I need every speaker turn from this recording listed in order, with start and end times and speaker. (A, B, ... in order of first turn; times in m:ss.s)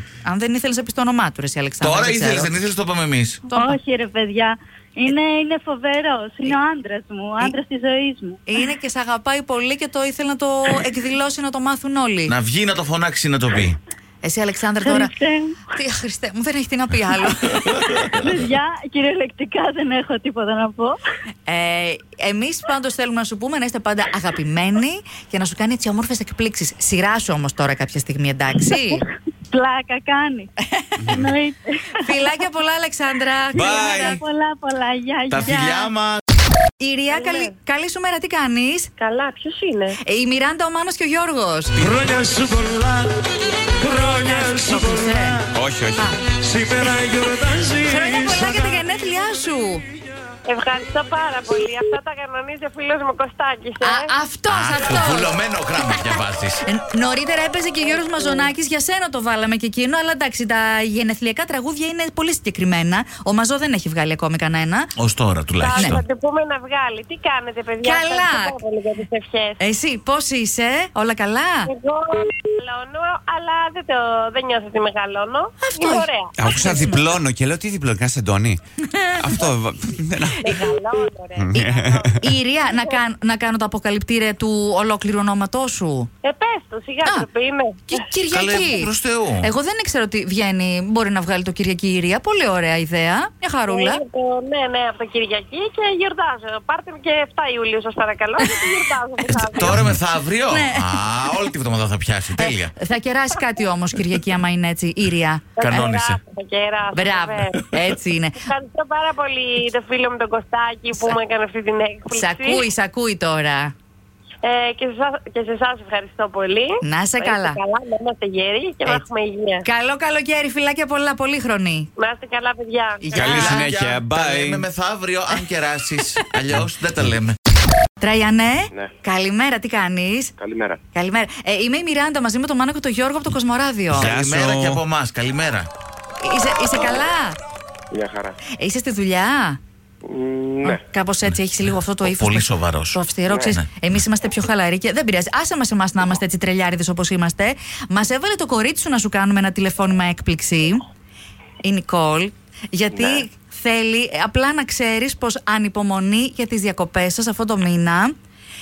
0:00.2-0:02.5 A
0:01.8-0:03.4 B
0:03.5-0:08.4 C
0:03.5-0:03.8 A
0:08.5-0:12.3 A
0:12.3-0:13.8 B
0:14.2-0:15.2 A
0:14.8-0:15.6 C
0:15.7-0:17.7 A
0:17.5-0:21.0 C
0:21.5-0:29.0 A
0:28.7-0:30.5 C
0:31.0-0:31.2 D
0:31.1-0:32.4 C
0:32.0-0:34.2 A
0:33.5-0:35.9 C
0:33.5-0:34.2 D
0:35.3-0:36.2 B
0:36.8-0:38.9 A
0:39.0-0:39.9 E
0:40.0-0:42.0 A
0:42.3-0:42.6 F
0:43.8-0:45.4 A
0:45.5-0:46.1 D
0:46.0-0:49.8 A
0:50.5-0:54.0 E
0:50.6-0:52.0 F
0:53.7-0:54.0 F
0:53.8-0:55.3 A
0:54.5-0:56.6 B
0:56.7-1:04.9 A
1:05.0-1:06.0 B
1:05.6-1:09.6 E
1:05.8-1:06.0 A
1:06.0-1:06.9 F
1:07.7-1:09.5 F
1:07.8-1:08.5 A
1:09.6-1:11.7 A
1:11.7-1:12.0 F
1:11.9-1:16.0 E
1:12.8-1:13.2 F
1:15.3-1:16.3 F
1:15.6-1:17.0 A
1:16.4-1:18.6 D
1:18.8-1:19.2 A
1:19.2-1:20.6 D
1:20.4-1:21.3 E
1:21.0-1:21.8 F
1:21.4-1:22.3 D
1:21.5-1:26.1 A
1:26.2-1:27.7 E
1:26.5-1:28.0 F
1:27.9-1:28.9 A
1:28.3-1:29.5 B
1:29.4-1:34.0 A
1:33.7-1:39.7 E
1:35.1-1:35.4 F
1:37.9-1:39.7 F
1:38.4-1:38.7 A
1:39.3-1:39.9 A
1:39.6-1:42.7 B
1:40.5-1:41.1 A
1:42.4-1:45.9 A
1:45.6-1:46.2 B
1:45.6-1:47.4 E
1:45.7-1:47.4 F
1:46.9-1:48.5 A
1:48.5-1:52.5 E
1:50.4-1:51.3 F
1:50.9-1:51.2 A
1:52.0-1:52.6 F
1:52.1-1:53.7 A
1:54.4-1:56.7 E
1:54.8-1:56.1 F
1:56.8-1:57.6 A
1:57.2-1:59.6 E
1:57.4-1:59.6 F
1:59.6-2:01.9 A
2:02.0-2:02.9 E
2:02.0-2:03.5 F
2:03.0-2:03.7 A
2:03.1-2:04.7 D
2:03.3-2:07.4 B
2:08.0-2:10.3 A
2:10.4-2:10.8 G
2:10.9-2:14.1 A
2:13.9-2:15.7 B
2:13.9-2:14.8 D
2:16.2-2:17.4 A
2:17.9-2:18.4 G
2:18.5-2:19.6 A
2:20.0-2:20.8 G
2:20.6-2:30.8 A
2:22.0-2:23.8 B
2:23.3-2:23.6 G
2:31.6-2:38.1 A
2:32.9-2:33.2 G